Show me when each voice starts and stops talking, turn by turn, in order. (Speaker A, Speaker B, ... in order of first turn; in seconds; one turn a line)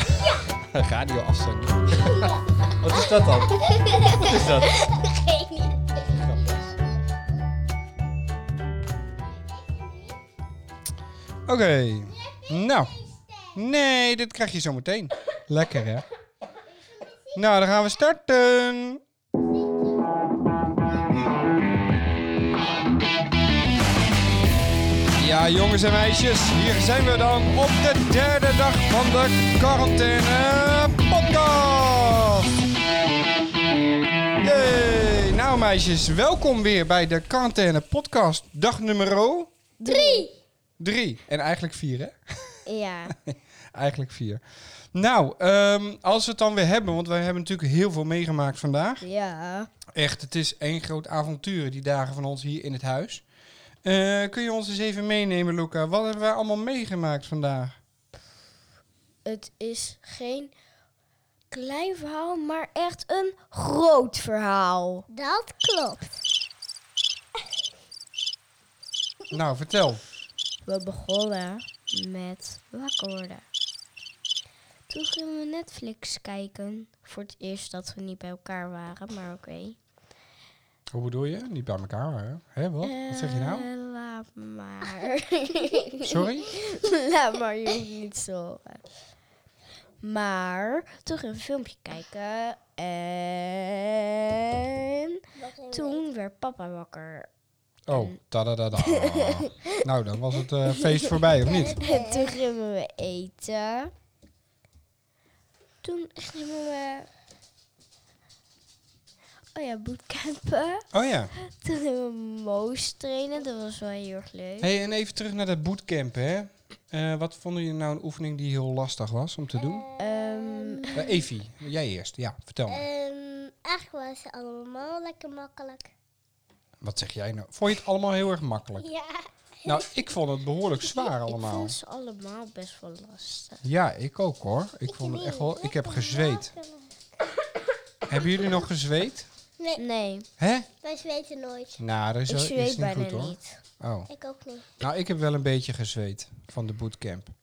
Speaker A: 0.5-4.9
Speaker B: 2.2-5.7
Speaker A: 6.1-6.6
Speaker B: 9.2-10.2
Speaker A: 11.5-13.0
Speaker B: 12.2-13.6
Speaker A: 13.5-16.1
Speaker B: 16.7-17.4
Speaker A: 17.3-19.0
Speaker B: 19.4-20.1
Speaker A: 25.2-32.5
Speaker A: 34.4-39.5
Speaker C: 39.8-40.3
Speaker B: 39.8-40.3
Speaker A: 40.8-42.6
Speaker C: 42.6-43.1
Speaker A: 43.2-49.0
Speaker C: 49.0-49.7
Speaker A: 49.9-53.2
Speaker A: 53.8-57.8
Speaker C: 59.2-60.5
Speaker C: 61.5-65.1
Speaker B: 65.1-66.1
Speaker A: 69.3-70.0
Speaker C: 70.6-73.5
Speaker C: 74.9-79.8
Speaker A: 80.9-83.7
Speaker C: 82.8-88.8
Speaker A: 86.0-86.5
Speaker C: 90.0-94.7
Speaker B: 95.3-96.0
Speaker C: 95.7-97.3
Speaker A: 97.9-101.8
Speaker C: 98.8-99.8
Speaker B: 101.4-102.4
Speaker C: 101.8-103.9
Speaker C: 105.8-107.1
Speaker C: 109.5-114.7
Speaker A: 110.9-111.3
Speaker A: 114.6-119.8
Speaker B: 119.5-121.1
Speaker C: 120.0-121.0
Speaker A: 120.9-122.8
Speaker B: 122.7-125.9
Speaker A: 126.8-128.9
Speaker B: 128.8-130.0
Speaker A: 129.7-131.8
Speaker C: 131.3-133.6
Speaker A: 133.6-136.5
Speaker B: 134.9-137.1
Speaker A: 138.1-139.3
Speaker B: 139.6-139.8
Speaker C: 139.8-140.3
Speaker A: 140.4-140.7
Speaker B: 140.8-141.8
Speaker A: 141.8-144.1
Speaker C: 142.3-143.6
Speaker B: 144.1-144.7
Speaker A: 144.8-147.3